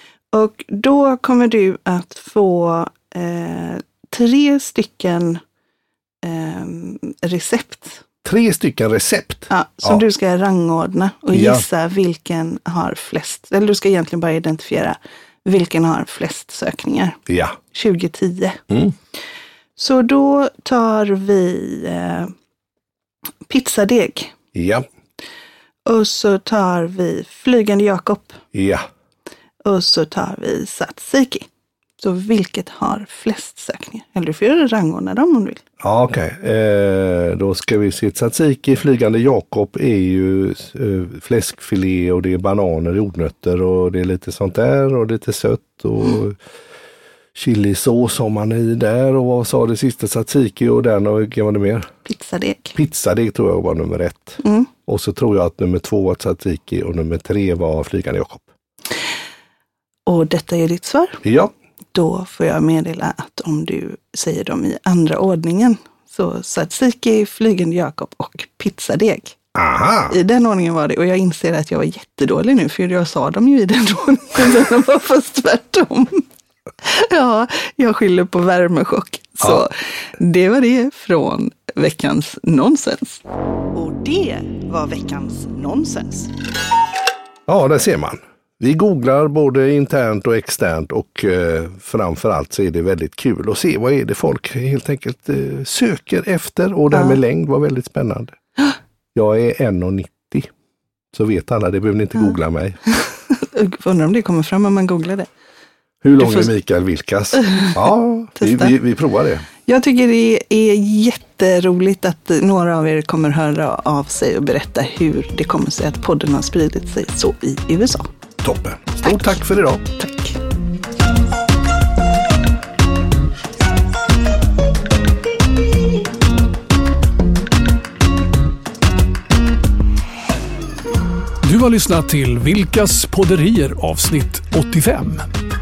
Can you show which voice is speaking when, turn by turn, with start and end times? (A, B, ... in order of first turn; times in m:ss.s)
0:00.3-0:05.4 A
0:06.2-0:08.0 A
0:08.2-0:10.0 B
0:09.5-0:17.2 A
0:11.3-0:11.6 B
0:17.3-0:17.6 B
0:17.7-0:18.6 A
0:19.8-0:22.3 A
0:23.5-0:24.3 A
0:24.5-0:24.9 B
0:25.8-0:28.4 A
0:28.5-0:28.8 B
0:29.6-0:31.5 A
0:32.0-0:35.6 A
0:35.8-0:46.4 B
0:47.3-0:51.9 B
0:52.0-0:52.8 A
0:52.7-0:58.5 B
0:54.4-0:54.7 A
1:00.0-1:01.2 A
1:01.2-1:01.5 B
1:01.9-1:09.4 A
1:09.5-1:10.2 B
1:10.1-1:16.2 A
1:16.8-1:26.3 A
1:27.5-1:38.4 B
1:36.9-1:37.2 A
1:39.1-1:40.5 B
1:41.1-1:42.8 B
1:43.0-1:45.3 A
1:46.0-1:49.4 B
1:46.2-1:46.5 A
1:47.4-1:47.8 A
1:48.4-1:48.7 A
1:49.6-1:58.1 A
1:58.4-1:59.8 B
1:59.0-1:59.4 A
2:00.0-2:00.4 A
2:11.4-2:15.3 C